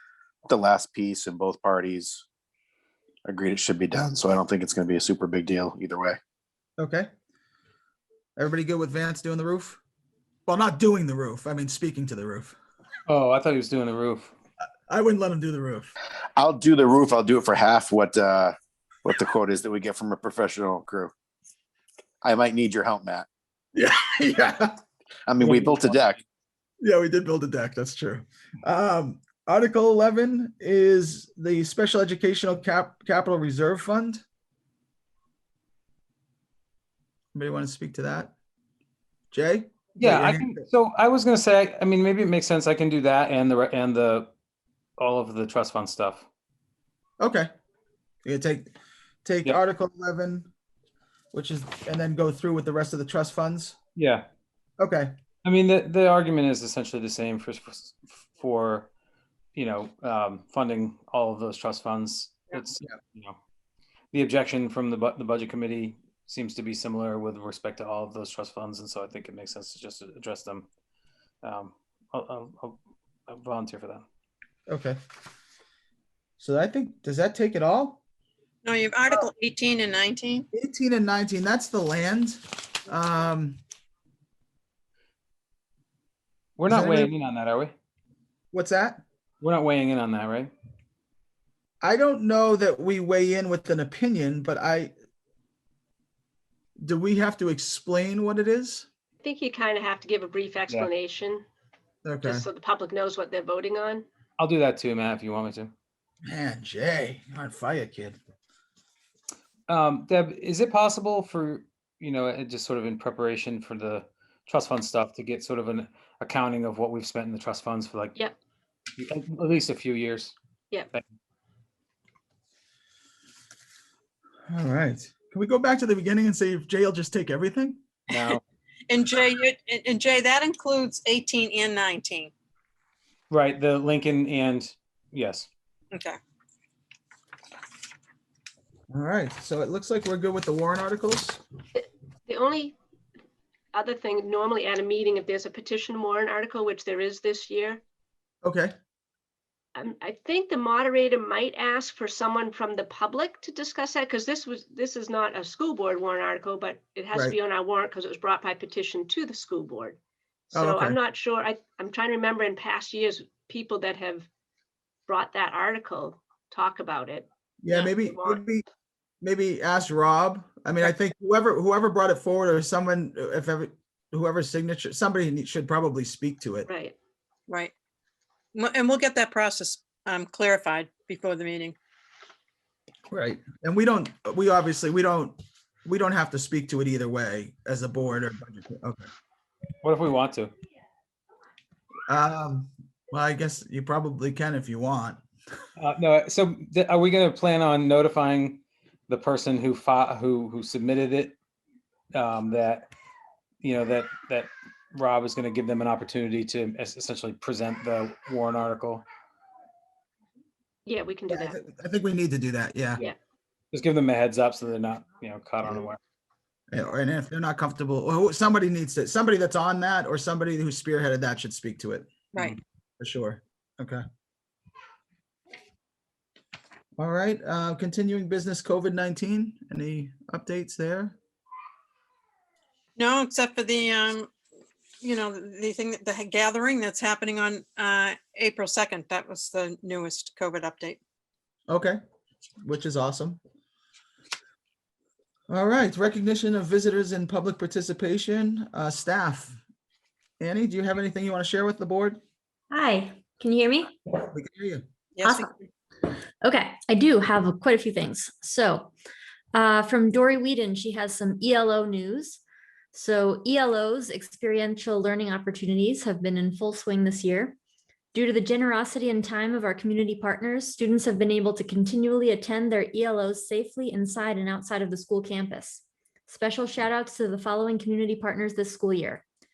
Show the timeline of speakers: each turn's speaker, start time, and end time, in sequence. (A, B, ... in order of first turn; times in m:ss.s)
0:00.5-0:02.2 A
0:03.2-0:06.2 A
0:06.8-0:07.1 B
0:08.4-0:09.8 B
0:10.5-0:12.6 B
0:13.1-0:14.3 C
0:14.9-0:15.9 B
0:16.4-0:21.1 A
0:22.2-0:23.3 A
0:23.7-0:24.8 B
0:25.3-0:26.2 A
0:25.4-0:25.8 B
0:26.8-0:34.2 B
0:37.3-0:38.3 B
0:39.3-0:40.6 B
0:40.0-0:44.3 C
0:45.0-0:46.2 C
0:47.2-0:47.5 B
0:48.2-0:48.7 B
0:49.2-0:50.5 B
0:51.3-0:53.8 B
0:54.0-0:54.2 C
0:54.8-0:55.1 B
0:55.4-0:58.9 C
0:59.5-1:03.4 C
1:04.1-1:10.7 C
1:11.4-1:14.0 C
1:14.7-1:15.0 B
1:16.4-1:18.0 B
1:18.6-1:20.4 D
1:20.5-1:23.6 B
1:26.6-1:27.7 C
1:26.6-1:27.1 B
1:28.5-1:29.0 B
1:29.4-1:30.5 C
1:31.8-1:34.9 B
1:36.8-1:38.9 B
1:39.2-1:41.4 E
1:42.0-1:42.4 B
1:42.2-1:44.0 E
1:44.4-1:45.7 C
1:46.2-1:48.2 B
1:49.7-1:58.2 C
1:59.0-2:00.3 C
2:04.5-2:07.8 B
2:08.1-2:08.4 C
2:08.9-2:12.3 D
2:13.3-2:15.5 C
2:15.9-2:16.2 D
2:18.9-2:21.4 B
2:21.8-2:22.8 E
2:23.7-2:27.8 E
2:28.4-2:28.7 B
2:29.7-2:40.0 E
2:40.5-2:44.3 E
2:40.5-2:41.0 B
2:45.1-2:48.4 E
2:47.6-2:48.6 B
2:49.2-2:56.7 B
2:56.6-2:56.9 E
2:58.5-3:01.8 D
3:03.1-3:09.1 B
3:09.8-3:10.5 C
3:12.1-3:15.2 B
3:15.8-3:21.4 C
3:22.1-3:22.9 C
3:23.6-3:29.0 C
3:30.8-3:31.6 E
3:31.3-3:33.0 B
3:33.7-3:36.0 C
3:36.7-3:42.1 B
3:42.3-3:42.6 D
3:43.0-3:44.0 B
3:47.0-3:51.2 B
3:53.0-3:54.3 D
3:55.0-4:01.0 D
4:01.7-4:02.0 B
4:02.6-4:03.4 B
4:05.5-4:09.6 B
4:10.4-4:12.2 B
4:12.7-4:14.0 F
4:14.3-4:14.8 B
4:15.2-4:15.7 D
4:15.2-4:15.5 F
4:16.4-4:18.9 F
4:19.5-4:22.4 F
4:22.9-4:27.6 F
4:28.1-4:39.2 F